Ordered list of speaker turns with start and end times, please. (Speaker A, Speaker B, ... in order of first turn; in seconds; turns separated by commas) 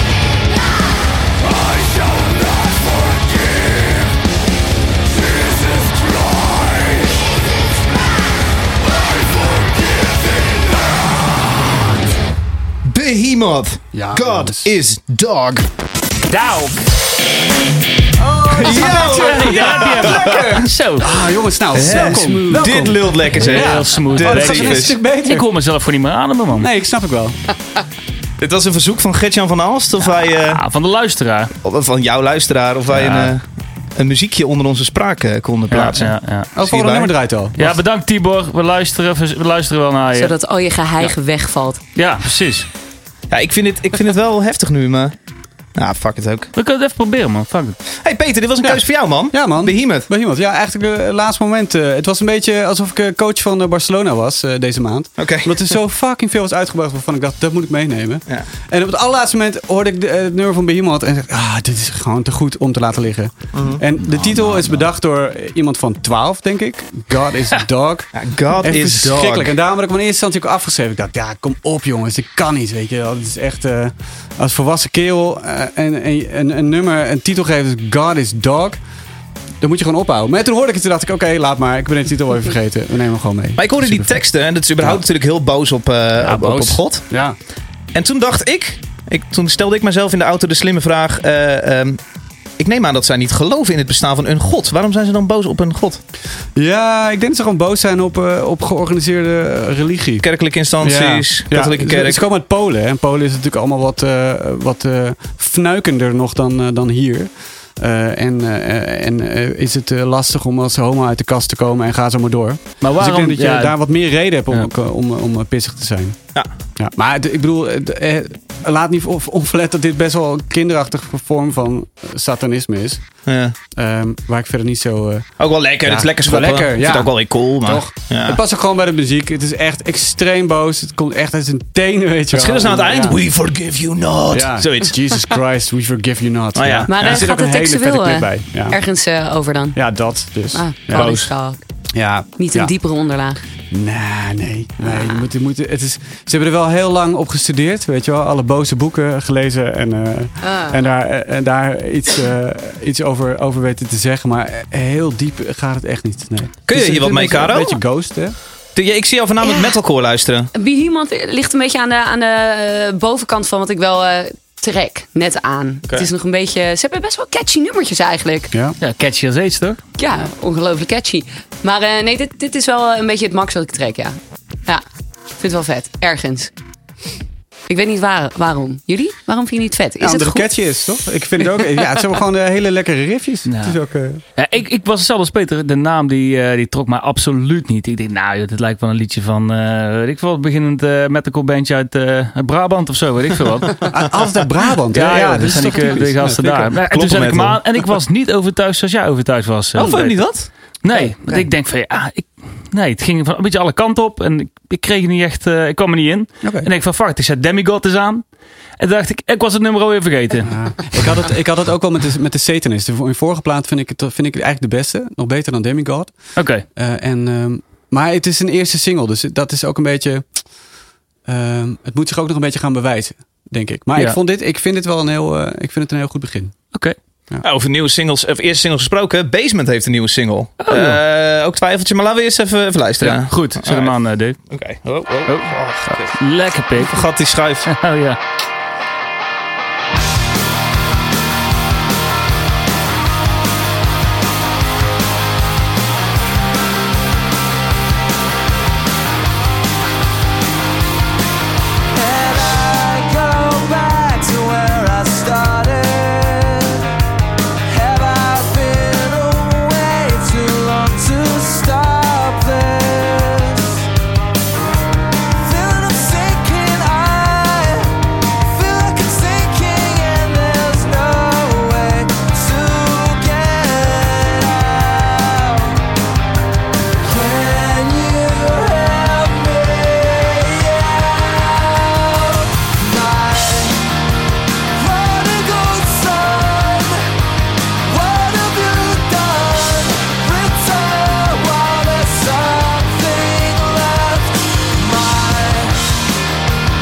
Speaker A: 1.4-4.1, Speaker A: 5.1-7.2, Speaker A: 9.1-11.0, Speaker B: 12.8-15.7, Speaker C: 13.9-14.7, Speaker D: 16.3-16.8, Speaker C: 18.2-25.4, Speaker B: 18.5-20.6, Speaker D: 18.7-21.2, Speaker B: 21.7-25.0, Speaker E: 21.8-22.9, Speaker D: 23.3-26.7, Speaker C: 26.6-27.4, Speaker B: 28.4-30.6, Speaker D: 30.3-31.5, Speaker B: 31.6-37.1, Speaker D: 32.9-33.3, Speaker D: 35.7-36.5, Speaker C: 36.5-37.8, Speaker D: 37.5-40.3, Speaker E: 40.1-41.8, Speaker D: 42.0-42.7, Speaker B: 43.3-45.1, Speaker B: 45.8-46.5, Speaker D: 46.5-47.8, Speaker B: 47.9-50.1, Speaker C: 48.6-78.8, Speaker B: 55.2-55.7, Speaker B: 63.5-63.8, Speaker D: 64.3-64.7, Speaker B: 68.1-69.6, Speaker C: 79.6-84.1, Speaker B: 83.6-87.0, Speaker C: 86.2-87.3, Speaker B: 87.9-92.0, Speaker B: 92.6-96.0, Speaker C: 96.5-100.2, Speaker B: 100.2-102.2, Speaker C: 100.8-116.2, Speaker D: 112.8-113.8, Speaker C: 116.8-123.0, Speaker B: 123.2-123.5, Speaker C: 123.7-125.3, Speaker B: 125.4-128.4, Speaker C: 125.8-133.2, Speaker B: 132.3-135.1, Speaker C: 134.3-138.8, Speaker B: 136.5-137.3, Speaker E: 136.9-139.8, Speaker C: 139.8-141.1, Speaker E: 140.5-141.6, Speaker B: 140.9-141.3, Speaker C: 141.9-142.7, Speaker E: 142.4-143.4, Speaker C: 143.7-158.3, Speaker E: 144.8-145.2, Speaker E: 150.4-150.8, Speaker B: 156.7-157.8, Speaker B: 158.7-160.5, Speaker E: 159.4-159.8, Speaker E: 160.5-168.5, Speaker D: 168.8-169.8, Speaker E: 170.0-174.8, Speaker E: 175.4-176.5, Speaker E: 177.7-180.5, Speaker C: 180.0-184.2, Speaker D: 183.4-183.8, Speaker D: 184.3-194.0, Speaker C: 193.9-196.7, Speaker D: 194.9-200.2, Speaker B: 196.9-197.6, Speaker B: 199.8-200.5, Speaker D: 200.8-208.2, Speaker C: 200.9-201.4, Speaker C: 206.4-206.7, Speaker D: 208.8-210.6, Speaker C: 210.4-220.2, Speaker D: 216.3-216.6, Speaker C: 221.2-226.5, Speaker B: 227.4-233.9, Speaker D: 230.6-231.0, Speaker D: 233.0-234.4, Speaker B: 234.5-236.1, Speaker D: 235.2-237.1, Speaker B: 236.7-237.7, Speaker D: 237.7-238.2, Speaker A: 251.9-256.8, Speaker A: 257.7-263.8, Speaker A: 265.4-267.9, Speaker A: 268.5-275.8, Speaker A: 277.0-283.8, Speaker A: 284.8-287.1, Speaker A: 287.9-295.8